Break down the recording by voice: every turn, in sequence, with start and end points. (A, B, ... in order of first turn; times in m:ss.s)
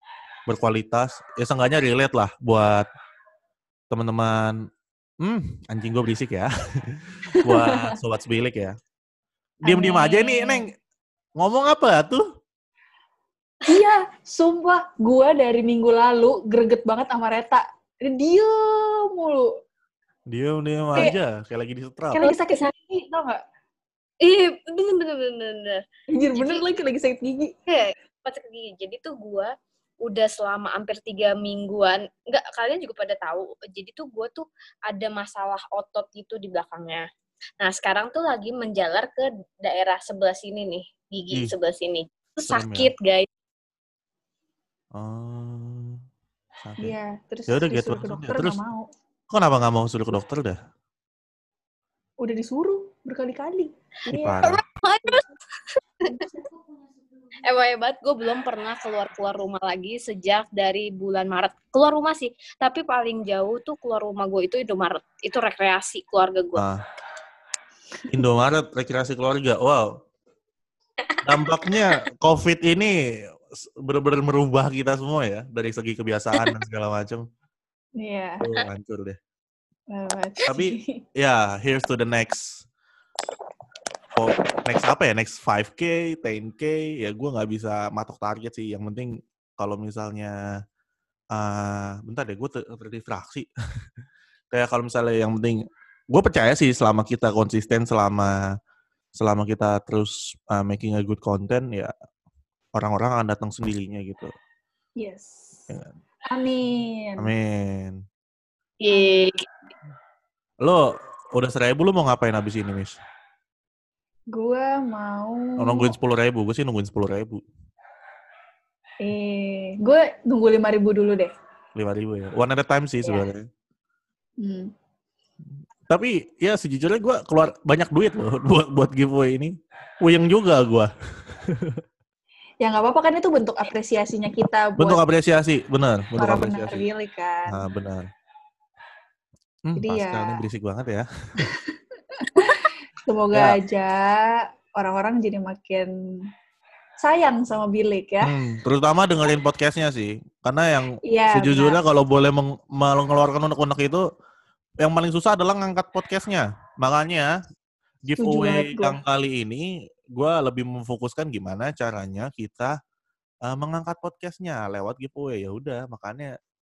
0:00.5-0:02.9 A
0:03.9-0:04.6 A
0:05.2-0:08.7 A
0:09.6-0:10.7 A
0:09.6-0:10.7 B
0:11.4-0:12.2 A
0:13.7-0:19.5 B
0:20.3-0:22.2 A
0:22.1-0:23.4 B
0:22.2-0:22.7 C
0:24.2-0:25.8 C
0:26.1-0:27.5 B
0:26.3-0:26.6 C
0:27.7-0:29.5 C
0:30.0-0:37.0 C
0:37.6-0:43.3 C
0:42.5-0:42.9 A
0:44.9-0:46.0 A
0:46.6-0:46.9 A
0:46.8-0:48.9 B
0:47.5-0:48.6 A
0:49.3-0:50.6 A
0:52.2-0:54.4 B
0:54.1-0:54.6 A
0:54.4-0:55.2 C
0:56.0-0:56.4 C
0:57.4-1:06.6 C
1:08.1-1:09.9 A
1:11.2-1:12.9 A
1:11.3-1:11.8 C
1:13.5-1:17.2 A
1:18.0-1:18.4 B
1:18.4-1:19.2 A
1:19.9-1:21.0 B
1:20.5-1:22.6 A
1:24.1-1:30.3 A
1:31.3-1:33.5 A
1:34.5-1:35.6 A
1:36.1-1:38.3 A
1:39.2-1:41.9 A
1:42.7-1:44.3 A
1:45.0-1:45.5 B
1:46.3-1:47.3 B
1:47.2-1:48.0 A
1:48.8-1:49.4 C
1:48.9-1:49.2 B
1:50.6-1:53.0 A
1:54.3-1:55.9 B
1:55.6-1:57.4 A
1:59.0-2:01.3 B
2:01.8-2:03.4 A
2:04.4-2:04.7 B
2:05.9-2:11.8 A
2:12.6-2:15.0 B
2:14.8-2:16.8 A
2:16.2-2:17.6 B
2:17.5-2:18.0 A
2:19.6-2:21.0 A
2:19.8-2:20.4 B
2:22.4-2:25.9 B
2:27.0-2:28.3 B
2:28.2-2:34.0 A
2:31.0-2:31.8 B
2:34.8-2:37.3 A
2:38.0-2:42.7 A
2:38.2-2:39.0 B
2:43.4-2:46.3 A